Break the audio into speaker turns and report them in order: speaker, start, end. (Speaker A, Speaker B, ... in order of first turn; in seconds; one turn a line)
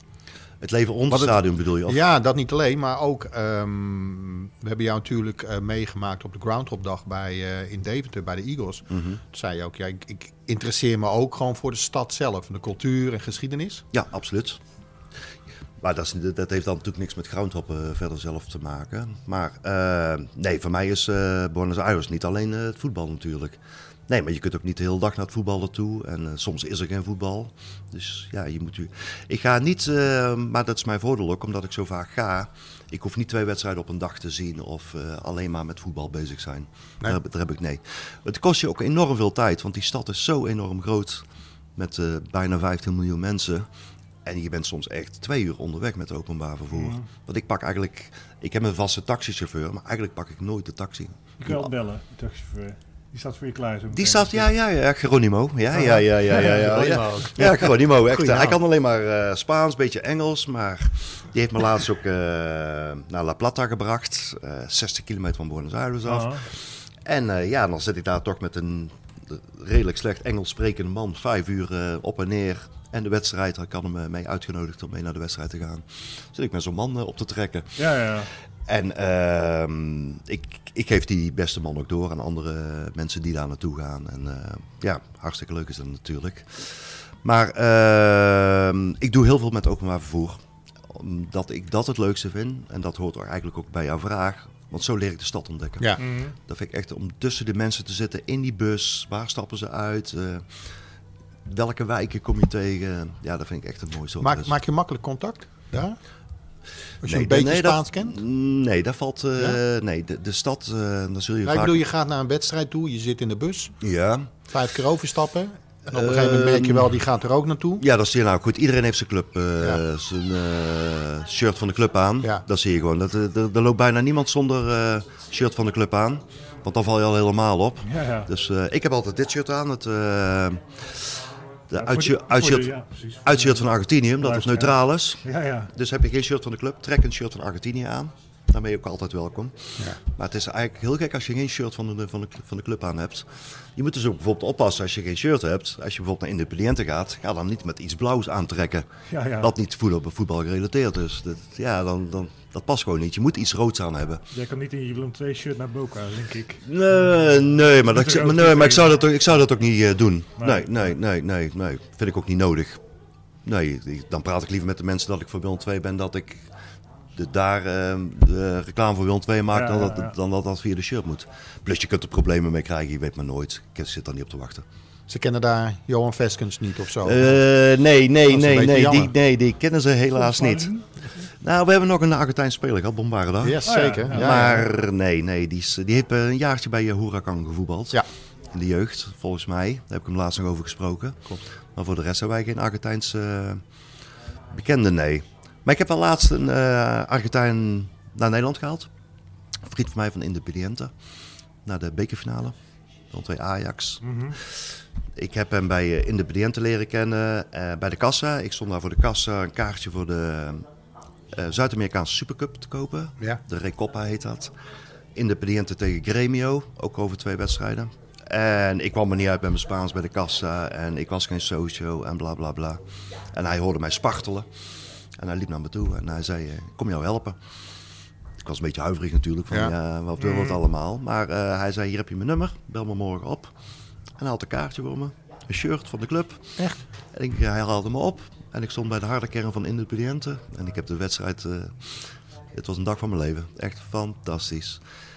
Speaker A: 0.6-2.0
Speaker B: 1.1-13.8
Speaker A: 8.9-9.2
Speaker A: 13.9-14.6
Speaker A: 15.8-41.2
Speaker A: 41.8-43.7
Speaker A: 44.2-51.7
Speaker C: 46.7-47.0
Speaker C: 51.4-54.5
Speaker A: 53.9-77.8
Speaker B: 55.8-58.6
Speaker C: 66.0-66.4
Speaker C: 77.8-78.3
Speaker A: 78.7-100.5
Speaker C: 96.0-96.3
Speaker A: 101.5-104.5
Speaker B: 104.2-106.0
Speaker B: 107.0-108.2
Speaker A: 107.0-111.8
Speaker B: 111.4-113.7
Speaker A: 113.8-114.3
Speaker B: 114.5-117.8
Speaker A: 115.9-117.0
Speaker A: 117.8-148.9
Speaker C: 127.8-128.3
Speaker C: 131.8-133.6
Speaker C: 134.2-135.7
Speaker C: 149.1-149.5
Speaker A: 149.4-154.2
Speaker C: 154.3-159.0
Speaker A: 156.6-162.8
Speaker C: 160.4-160.8
Speaker A: 163.4-166.5
Speaker A: 167.2-174.6
Speaker C: 169.5-170.1
Speaker B: 175.1-177.4
Speaker A: 177.0-180.7
Speaker B: 178.2-179.1
Speaker C: 180.1-181.3
Speaker A: 181.4-193.6
Speaker B: 183.4-184.7
Speaker C: 183.6-184.5
Speaker A: 194.5-198.9
Speaker A: 199.7-200.9
Speaker A: 201.7-202.6
Speaker A: 203.1-210.7
Speaker C: 204.0-204.4
Speaker A: 211.3-214.5
Speaker A: 215.1-224.5
Speaker A: 225.2-227.4
Speaker A: 228.4-233.5
Speaker B: 229.5-229.7
Speaker C: 230.2-230.6
Speaker A: 234.2-236.6
Speaker A: 237.1-244.8